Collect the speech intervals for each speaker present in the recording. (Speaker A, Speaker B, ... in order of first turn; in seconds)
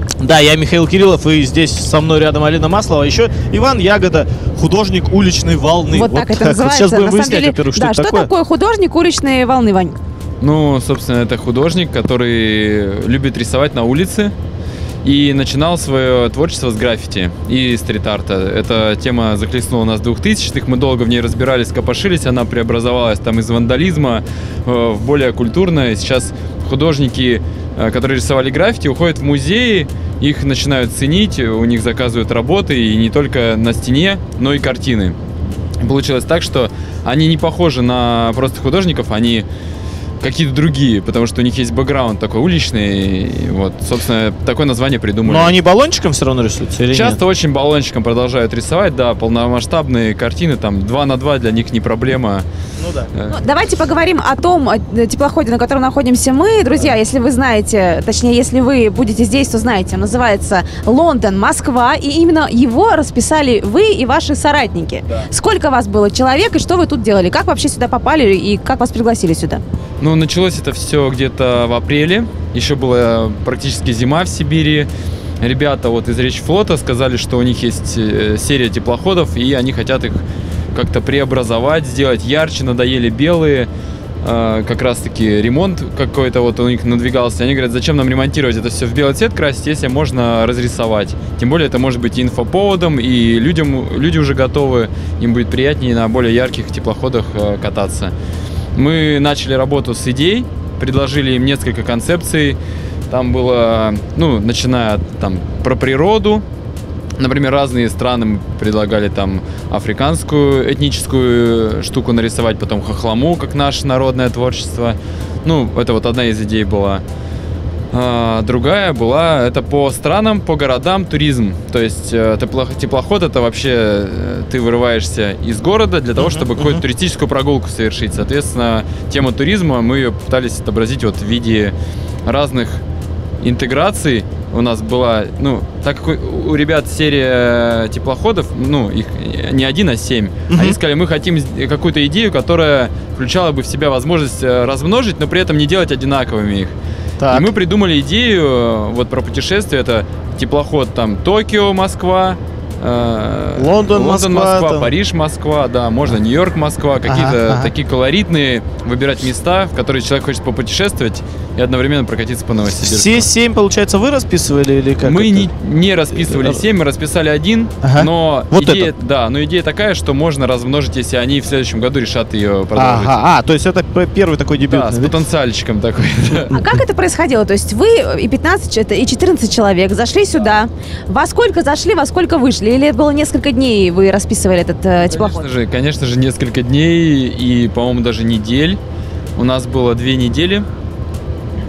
Speaker A: 0.2-8.3, 45.2-47.2, 52.8-53.1, 126.2-126.8, 140.5-140.8, 147.2-147.5, 153.6-154.9, 157.0-157.7, 162.8-165.5, 166.2-166.6, 167.8-168.9, 172.8-175.1
Speaker B: 5.9-10.0, 53.3-69.6, 176.5-185.4
Speaker C: 10.4-14.3, 15.0-35.2, 35.8-39.5, 40.2-45.5, 46.9-52.5, 70.0-74.9, 75.4-80.2, 80.7-83.7, 84.2-98.1, 98.8-102.6, 103.1-106.4, 107.2-117.0, 117.9-131.7, 132.2-132.8, 133.4-146.7, 147.3-163.3, 165.0-173.2, 174.7-176.6, 185.1-188.8, 189.4-190.7